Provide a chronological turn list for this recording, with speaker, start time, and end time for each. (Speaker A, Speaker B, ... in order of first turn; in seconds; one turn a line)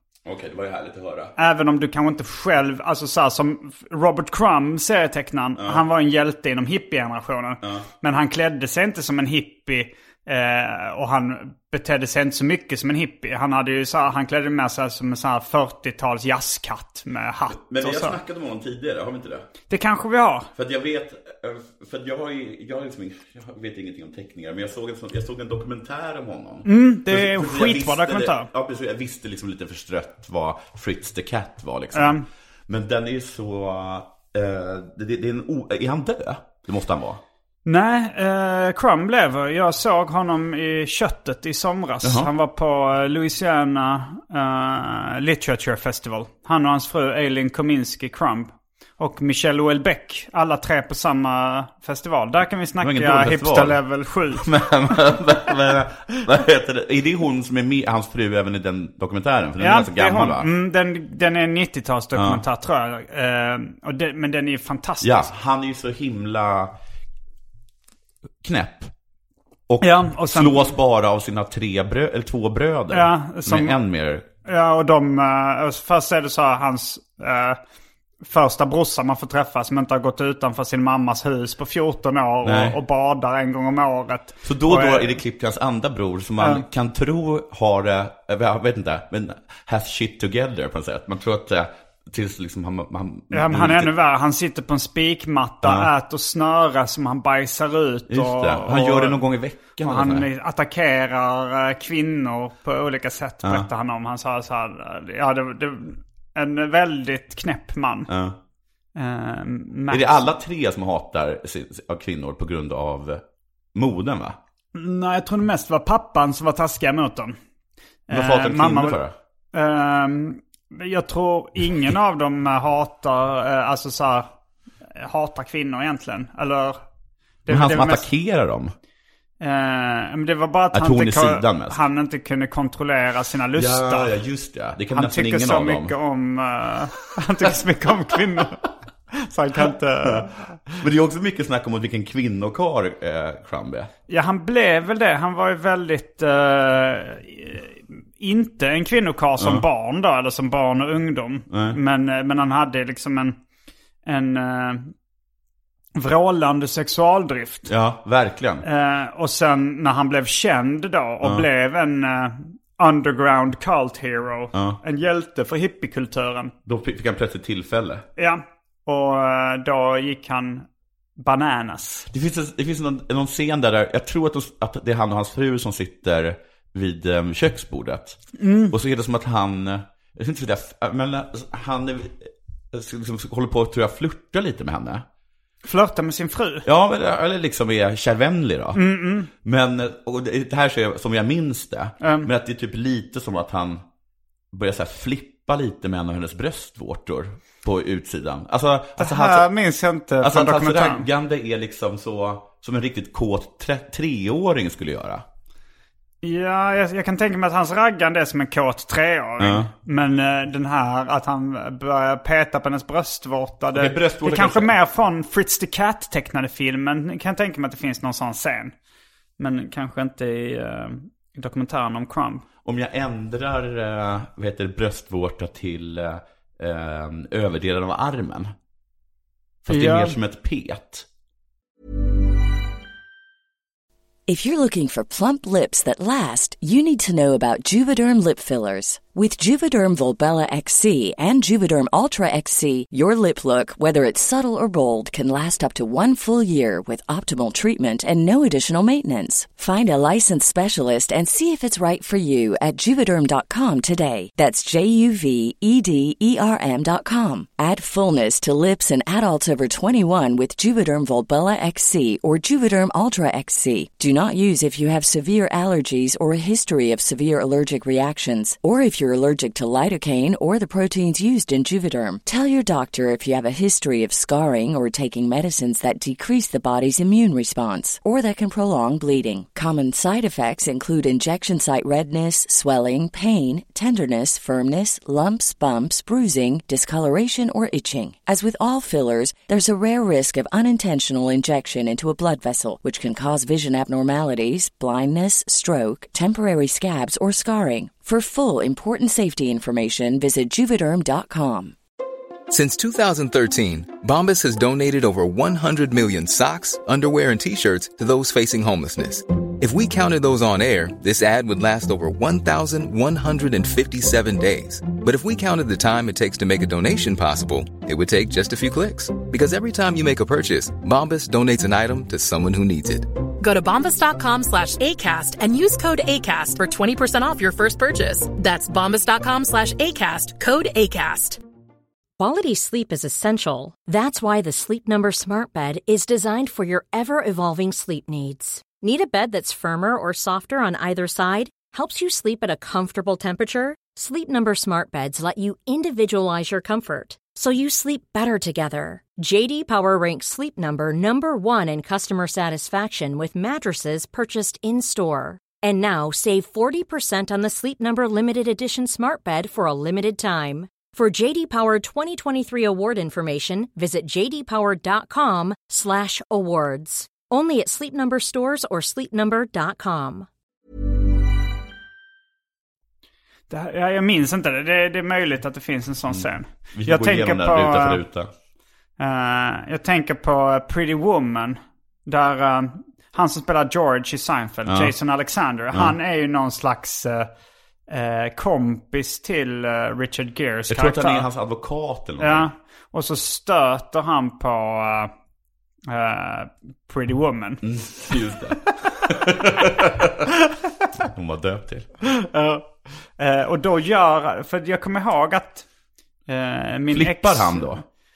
Speaker A: 0.2-1.3
Speaker B: 1.4-18.2
Speaker A: 17.5-19.5
Speaker B: 19.7-20.5
Speaker A: 20.6-37.2
Speaker B: 26.6-28.5
Speaker B: 31.9-32.2
Speaker B: 37.7-54.5
Speaker A: 42.0-42.3
Speaker A: 52.8-53.8
Speaker A: 54.3-60.5
Speaker B: 59.6-65.3
Speaker A: 62.1-62.4
Speaker A: 65.0-66.8
Speaker A: 68.4-68.9
Speaker A: 69.7-74.3
Speaker B: 69.8-70.7
Speaker B: 72.9-73.8
Speaker B: 74.5-77.6
Speaker B: 78.2-85.2
Speaker A: 82.4-82.8
Speaker A: 84.4-93.9
Speaker B: 86.4-86.7
Speaker B: 93.3-108.1
Speaker A: 95.6-95.9
Speaker A: 98.1-100.3
Speaker A: 108.1-108.4
Speaker B: 109.0-110.3
Speaker A: 109.9-113.2
Speaker A: 113.8-114.4
Speaker B: 114.7-117.4
Speaker B: 118.1-119.0
Speaker A: 118.1-119.2
Speaker B: 119.5-124.3
Speaker B: 125.0-126.8
Speaker B: 127.5-128.1
Speaker A: 127.5-128.7
Speaker B: 129.4-134.2
Speaker A: 130.7-131.8
Speaker A: 133.6-135.9
Speaker B: 134.9-140.8
Speaker A: 140.0-143.9
Speaker B: 144.1-153.4
Speaker A: 149.4-149.6
Speaker A: 151.5-151.8
Speaker B: 154.1-154.9
Speaker B: 155.9-157.7
Speaker A: 157.7-158.7
Speaker B: 158.6-166.5
Speaker A: 164.5-164.8
Speaker A: 166.7-168.1
Speaker B: 168.2-170.7
Speaker B: 171.2-172.1
Speaker A: 172.1-185.1
Speaker B: 178.4-178.8
Speaker B: 185.6-186.7
Speaker A: 186.7-193.8
Speaker B: 188.8-189.3
Speaker B: 192.0-192.3
Speaker A: 194.5-199.5
Speaker B: 199.0-201.1
Speaker A: 200.2-205.2
Speaker B: 206.2-218.7
Speaker A: 209.4-209.7
Speaker A: 213.7-214.7
Speaker B: 219.4-222.4
Speaker A: 222.7-228.5
Speaker A: 229.7-231.1
Speaker B: 229.7-230.2
Speaker C: 234.3-301.8
Speaker D: 302.5-323.1
Speaker E: 323.4-331.4
Speaker F: 332.2-370.3
Speaker B: 373.5-378.0
Speaker A: 376.1-378.3
Speaker B: 379.0-387.3
Speaker A: 384.7-384.9
Speaker B: 387.9-391.3
Speaker A: 390.7-392.5
Speaker B: 392.2-395.1
Speaker B: 395.9-397.6
Speaker A: 397.6-400.3
Speaker A: 401.0-401.9
Speaker B: 402.0-405.7
Speaker B: 406.3-407.8
Speaker A: 406.9-407.8